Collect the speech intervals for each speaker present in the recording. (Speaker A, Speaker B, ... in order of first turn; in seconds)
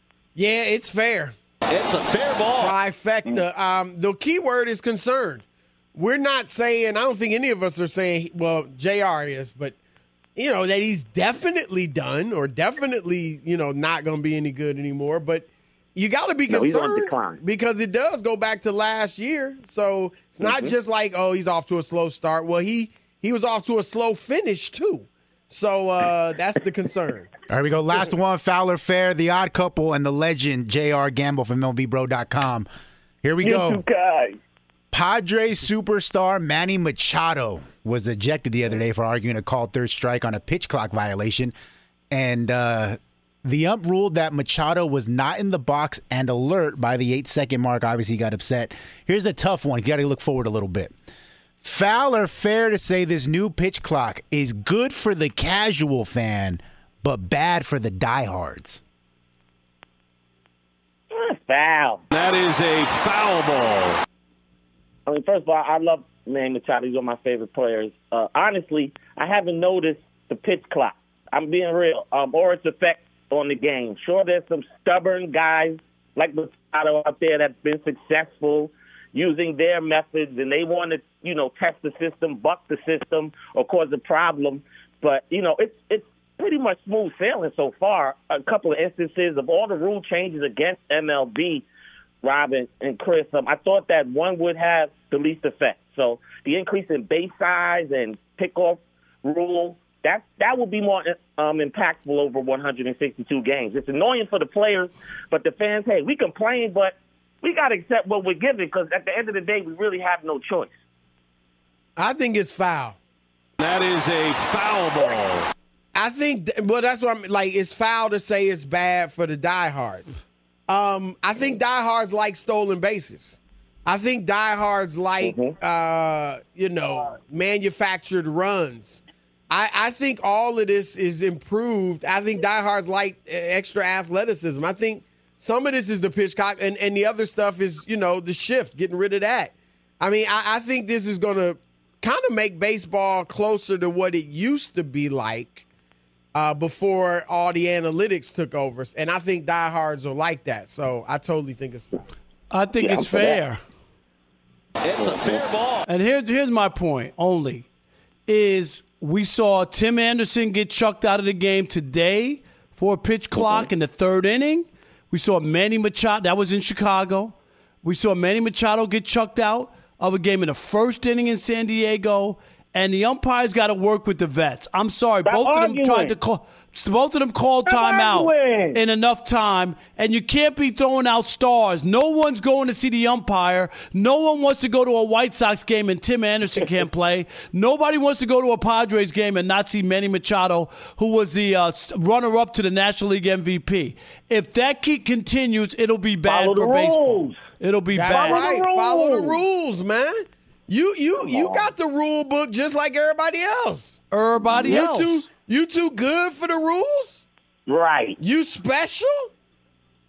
Speaker A: 0.3-1.3, 2.6-9.8, 10.3-27.3, 112.0-113.0, 115.9-120.1, 120.7-145.6, 146.3-151.9, 197.9-207.2, 208.2-209.3
Speaker B: 1.7-2.7, 62.1-64.0, 113.6-115.5, 154.8-155.8
Speaker C: 16.5-17.4, 20.4-20.7, 33.4-34.4, 61.1-62.0, 65.1-91.6, 92.2-110.7, 125.2-125.5, 152.8-153.4, 163.4-163.7, 175.2-176.1, 177.7-178.8, 196.2-197.4, 198.1-199.4, 201.2-201.7, 207.7-208.2
Speaker D: 27.5-32.7, 33.2-33.8, 34.9-41.5, 42.1-50.9, 51.6-58.8
Speaker E: 152.5-153.6, 155.9-157.7, 158.3-198.4, 204.1-205.2